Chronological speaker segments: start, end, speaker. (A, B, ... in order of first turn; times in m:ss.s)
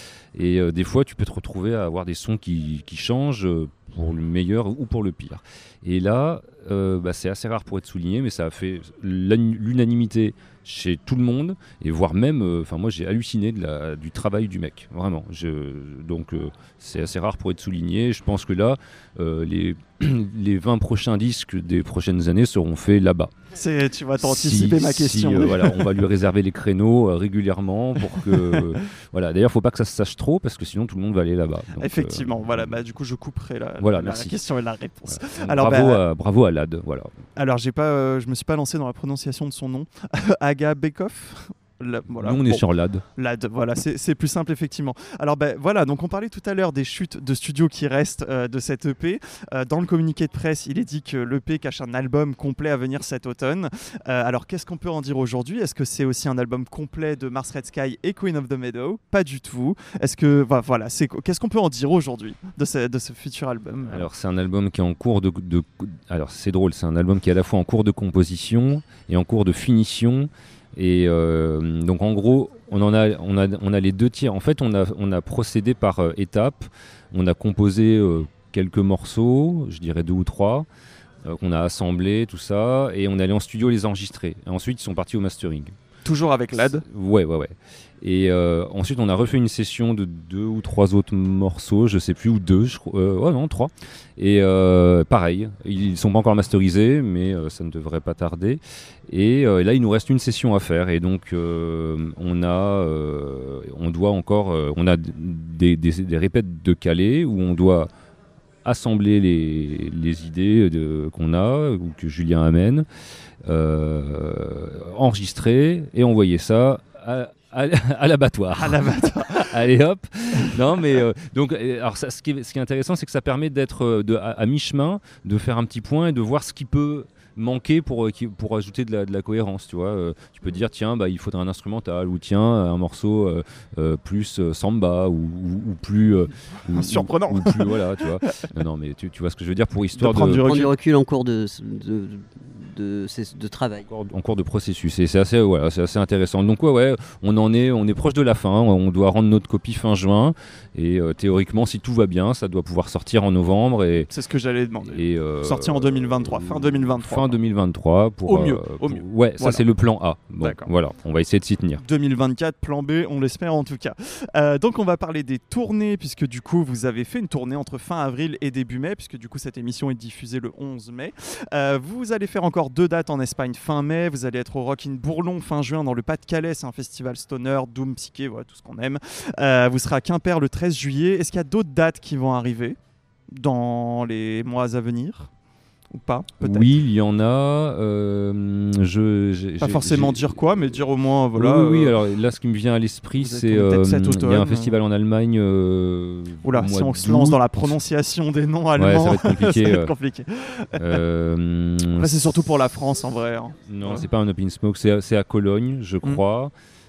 0:00.3-0:23.3 A
0:23.6-0:25.9 B
0:24.2-0:32.8 A
0:31.8-0:36.0 B
0:33.8-0:34.4 A
0:35.1-0:37.1 A
0:37.4-0:42.6 B
0:42.2-0:43.0 A
0:43.2-1:04.1 B
1:03.9-1:20.7 A
1:21.2-1:25.7 A
1:26.0-1:26.8 B
1:26.6-1:47.9 A
1:48.6-1:52.9 A
1:53.4-2:20.4 A
1:58.6-1:59.5 B
2:16.7-2:17.8 B
2:20.0-2:20.7 B
2:20.4-2:23.9 C
2:23.9-2:34.1 A
2:34.1-2:37.4 B
2:34.9-2:41.8 A
2:38.3-2:39.6 B
2:40.4-2:40.7 B
2:41.8-3:02.8 B
3:03.3-3:05.3 B
3:05.9-3:06.7 B
3:06.4-3:17.8 A
3:09.6-3:12.0 B
3:13.2-3:14.7 B
3:16.4-3:21.0 B
3:18.8-3:19.9 A
3:20.8-3:22.4 A
3:22.0-3:24.1 B
3:23.7-3:26.5 A